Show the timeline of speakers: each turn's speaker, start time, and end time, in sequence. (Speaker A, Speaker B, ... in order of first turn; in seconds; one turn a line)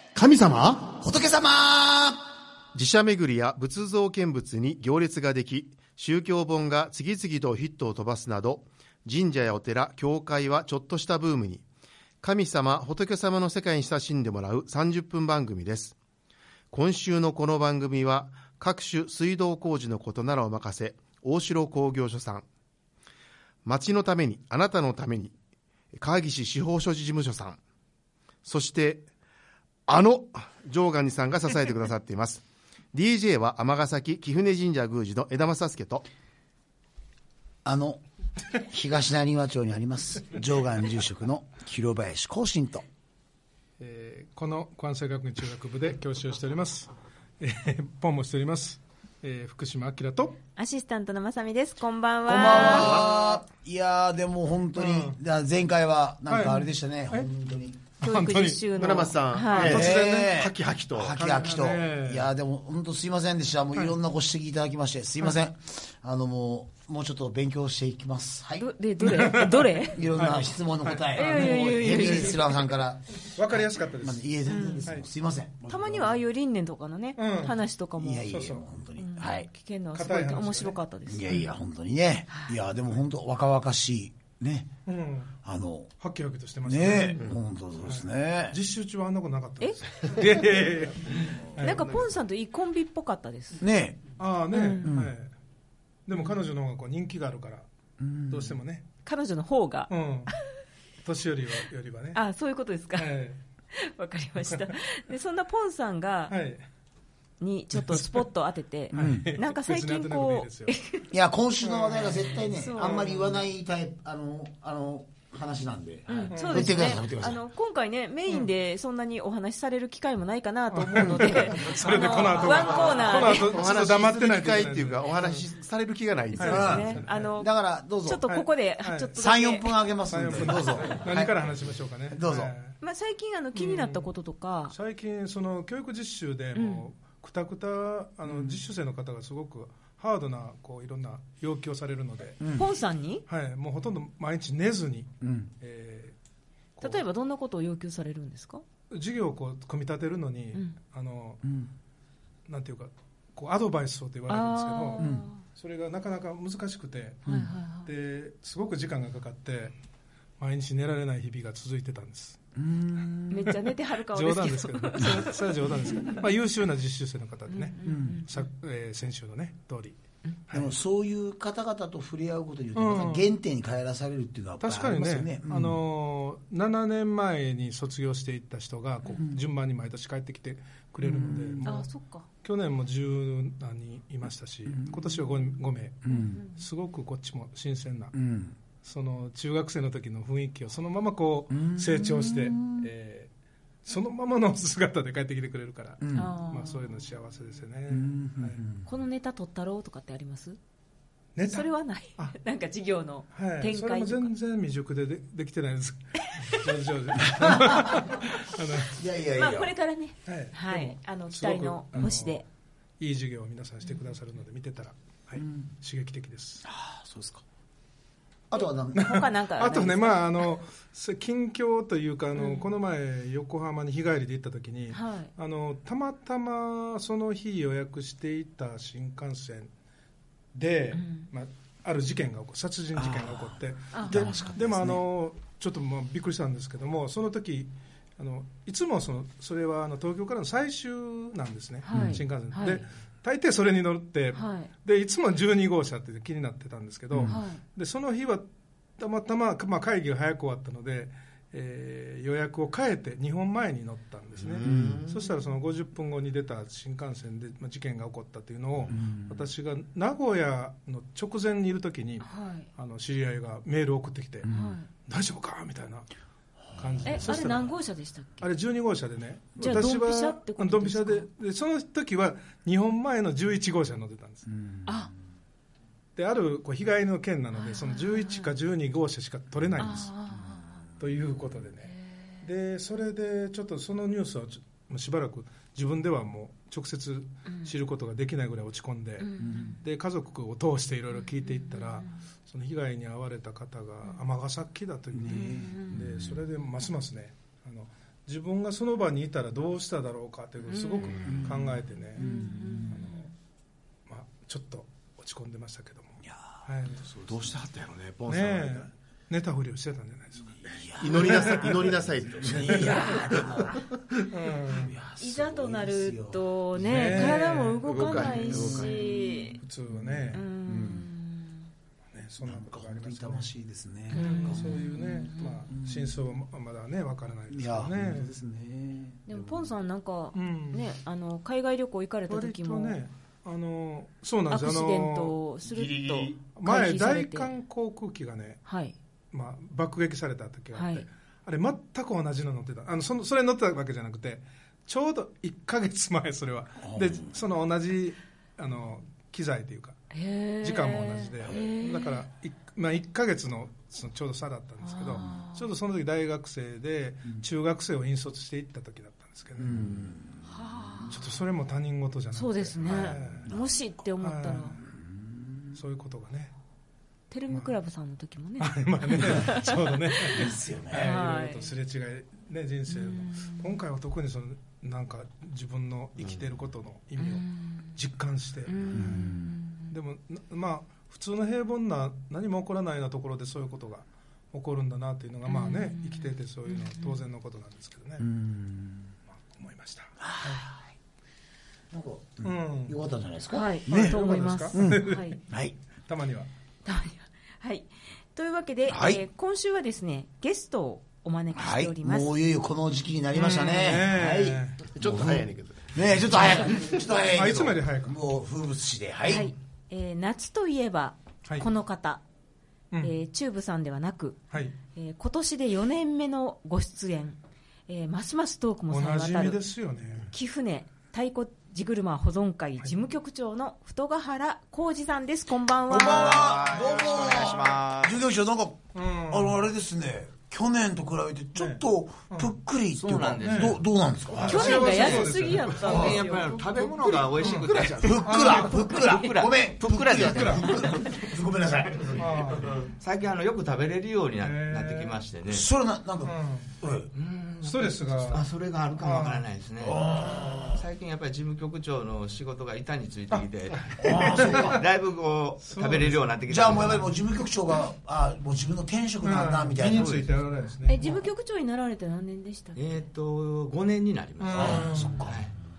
Speaker A: 0.1-0.9
Speaker B: 0.9-2.2
Speaker A: 2.7-11.7
Speaker A: 12.2-16.0
Speaker A: 16.7-22.5
Speaker A: 23.6-25.3
Speaker A: 26.0-27.6
Speaker A: 28.4-29.1
Speaker A: 29.9-32.4
Speaker A: 32.9-36.0
Speaker B: 37.6-38.0
Speaker B: 38.5-42.9
Speaker C: 43.8-50.4
Speaker D: 50.6-53.0
Speaker B: 52.3-57.9
Speaker A: 52.6-53.1
Speaker C: 52.6-53.0
Speaker C: 54.8-55.2
Speaker C: 56.3-57.3
Speaker D: 58.0-59.9
Speaker C: 58.0-59.9
Speaker A: 58.7-61.3
Speaker B: 59.6-68.7
Speaker C: 61.2-62.3
Speaker D: 68.6-70.0
Speaker C: 69.0-72.4
Speaker B: 69.9-76.2
Speaker D: 71.1-72.4
Speaker C: 73.3-74.2
Speaker D: 74.5-74.9
Speaker D: 75.7-78.3
Speaker C: 77.2-77.6
Speaker B: 78.0-79.5
Speaker C: 78.2-78.6
Speaker D: 79.0-81.5
Speaker C: 79.9-80.8
Speaker B: 81.1-84.8
Speaker C: 84.9-85.3
Speaker B: 85.4-85.9
Speaker C: 86.0-87.3
Speaker B: 86.7-88.6
Speaker C: 87.8-92.1
Speaker D: 91.6-93.6
Speaker B: 93.6-94.1
Speaker C: 94.2-95.3
Speaker D: 94.5-94.9
Speaker B: 94.8-95.1
Speaker C: 96.1-97.7
Speaker B: 98.0-98.6
Speaker C: 98.3-98.8
Speaker D: 99.0-100.3
Speaker C: 99.9-100.3
Speaker C: 101.0-102.2
Speaker D: 102.1-103.2
Speaker C: 103.0-103.4
Speaker D: 103.7-106.4
Speaker C: 106.3-106.6
Speaker D: 107.4-111.1
Speaker C: 107.8-108.2
Speaker C: 108.9-110.8
Speaker B: 109.0-109.3
Speaker B: 111.1-117.4
Speaker C: 111.6-113.5
Speaker D: 112.5-113.0
Speaker D: 116.1-123.6
Speaker C: 116.3-116.9
Speaker C: 120.7-125.4
Speaker A: 123.4-127.0
Speaker D: 126.3-129.7
Speaker C: 126.4-127.3
Speaker B: 126.5-128.2
Speaker C: 128.3-129.1
Speaker B: 129.2-131.5
Speaker C: 130.1-132.8
Speaker B: 132.1-132.6
Speaker D: 132.8-134.8
Speaker C: 133.6-134.1
Speaker C: 134.7-142.4
Speaker D: 136.6-136.8
Speaker B: 138.2-138.6
Speaker B: 142.4-142.7
Speaker D: 142.6-143.2
Speaker C: 143.3-146.2
Speaker B: 145.2-145.5
Speaker C: 146.8-147.0
Speaker D: 146.8-148.6
Speaker C: 148.9-151.4
Speaker B: 151.4-151.7
Speaker C: 152.5-159.7
Speaker D: 154.3-155.4
Speaker B: 155.0-155.3
Speaker B: 157.3-157.5
Speaker D: 157.3-157.9
Speaker C: 160.4-162.4
Speaker B: 162.6-163.5
Speaker D: 163.3-166.2
Speaker C: 164.1-170.7
Speaker D: 167.5-168.4
Speaker B: 167.8-168.2
Speaker B: 170.5-175.8
Speaker C: 172.8-173.3
Speaker C: 174.6-181.9
Speaker B: 181.0-181.7
Speaker D: 181.6-182.3
Speaker C: 182.4-188.2
Speaker B: 184.7-185.2
Speaker B: 186.0-186.4
Speaker D: 186.1-186.6
Speaker B: 188.1-188.6
Speaker C: 188.8-193.3
Speaker B: 191.5-192.9
Speaker C: 193.8-198.6
Speaker B: 196.0-196.3
Speaker D: 196.2-197.1
Speaker B: 197.9-198.9
Speaker D: 198.9-200.6
Speaker C: 201.3-202.4
Speaker D: 201.5-204.3
Speaker C: 203.3-209.0
Speaker B: 207.2-208.0
Speaker B: 208.9-209.7
Speaker D: 209.3-212.4
Speaker C: 210.3-212.4
Speaker C: 213.0-216.6
Speaker B: 215.4-215.7
Speaker B: 216.6-217.4
Speaker B: 218.5-219.2
Speaker D: 218.5-220.2
Speaker C: 218.9-229.7
Speaker D: 222.4-222.7
Speaker D: 224.9-225.3
Speaker C: 230.5-248.5
Speaker D: 230.9-231.3
Speaker B: 232.9-235.0
Speaker D: 233.9-234.6
Speaker D: 241.8-242.8
Speaker B: 241.9-242.2
Speaker D: 244.3-244.7
Speaker B: 247.1-247.4
Speaker D: 247.3-247.6
Speaker C: 249.0-266.1
Speaker A: 254.4-255.2
Speaker B: 254.6-255.0
Speaker B: 258.9-259.4
Speaker D: 262.2-262.7
Speaker B: 264.4-264.8
Speaker D: 264.5-264.9
Speaker B: 266.7-267.4
Speaker C: 266.8-267.8
Speaker D: 267.0-268.5
Speaker C: 268.4-274.5
Speaker D: 269.6-271.3
Speaker B: 274.6-274.9
Speaker D: 274.9-275.1
Speaker C: 276.2-280.1
Speaker D: 277.5-278.5
Speaker D: 279.8-280.7
Speaker C: 281.0-303.3
Speaker D: 281.8-282.4
Speaker D: 287.5-287.7
Speaker D: 289.2-289.8
Speaker B: 289.4-289.7
Speaker D: 291.1-292.1
Speaker B: 295.1-296.4
Speaker D: 295.3-296.0
Speaker D: 300.7-301.2
Speaker B: 301.2-303.0
Speaker D: 302.2-303.2
Speaker C: 304.1-307.0
Speaker B: 306.2-307.5
Speaker A: 307.0-308.9
Speaker C: 308.3-310.6
Speaker B: 310.6-314.0
Speaker A: 310.9-313.5
Speaker C: 311.1-311.7
Speaker C: 312.7-313.2
Speaker C: 314.2-314.9
Speaker B: 314.6-317.4
Speaker D: 315.2-319.6
Speaker C: 316.8-320.4
Speaker A: 317.8-319.1
Speaker B: 318.6-319.1
Speaker B: 319.9-321.1
Speaker D: 320.3-321.7
Speaker C: 322.1-323.5
Speaker B: 322.4-326.2
Speaker D: 324.1-325.7
Speaker C: 324.1-328.3
Speaker B: 327.5-329.7
Speaker D: 329.3-333.0
Speaker C: 330.3-330.9
Speaker C: 332.3-335.4
Speaker D: 334.5-337.5
Speaker A: 335.7-336.4
Speaker C: 336.5-338.6
Speaker D: 338.7-338.9
Speaker C: 339.3-350.0
Speaker D: 340.7-341.1
Speaker B: 346.8-347.4
Speaker D: 350.1-352.2
Speaker C: 350.6-359.8
Speaker B: 351.4-351.8
Speaker D: 354.8-355.7
Speaker B: 359.6-360.5
Speaker D: 360.5-361.2
Speaker C: 361.1-363.5
Speaker D: 362.3-364.8
Speaker B: 362.8-363.7
Speaker C: 364.2-364.8
Speaker B: 364.9-365.7
Speaker C: 365.8-366.5
Speaker D: 367.3-371.7
Speaker C: 368.6-379.3
Speaker B: 370.3-371.1
Speaker D: 372.9-373.7
Speaker D: 377.2-377.9
Speaker D: 378.7-379.9
Speaker B: 378.9-379.6
Speaker C: 379.9-388.2
Speaker D: 385.5-387.2
Speaker B: 388.2-389.1
Speaker C: 389.5-390.6
Speaker B: 390.2-390.8
Speaker B: 391.9-394.2
Speaker C: 392.4-392.9
Speaker D: 393.5-395.4
Speaker C: 393.9-395.4
Speaker B: 394.7-395.8
Speaker C: 396.0-396.5
Speaker D: 396.9-402.3
Speaker B: 398.9-399.2
Speaker B: 401.5-409.5
Speaker C: 403.4-404.8
Speaker A: 404.9-406.9
Speaker C: 407.3-408.1
Speaker D: 409.3-412.2
Speaker D: 413.0-419.6
Speaker C: 414.5-414.8
Speaker C: 418.9-420.3
Speaker D: 420.3-426.6
Speaker B: 425.9-435.2
Speaker E: 426.0-428.2
Speaker C: 428.9-429.6
Speaker C: 431.6-432.5
Speaker E: 432.9-433.8
Speaker C: 433.4-433.8
Speaker C: 434.3-436.1
Speaker D: 434.5-436.5
Speaker B: 435.8-436.2
Speaker E: 435.8-441.3
Speaker C: 437.3-439.0
Speaker B: 437.9-442.6
Speaker D: 439.1-439.4
Speaker C: 440.2-440.7
Speaker C: 442.2-442.7
Speaker A: 442.6-442.9
Speaker E: 442.8-445.7
Speaker C: 444.4-445.1
Speaker B: 445.5-447.1
Speaker C: 446.2-446.7
Speaker E: 447.1-457.1
Speaker C: 447.6-448.5
Speaker C: 449.0-449.4
Speaker B: 449.8-450.9
Speaker C: 450.2-450.5
Speaker C: 453.3-454.0
Speaker B: 454.0-454.8
Speaker C: 454.5-454.8
Speaker C: 455.7-456.3
Speaker B: 456.5-460.3
Speaker C: 459.2-461.1
Speaker E: 459.8-460.2
Speaker D: 460.9-463.0
Speaker E: 462.8-465.5
Speaker C: 464.4-465.2
Speaker B: 464.6-465.5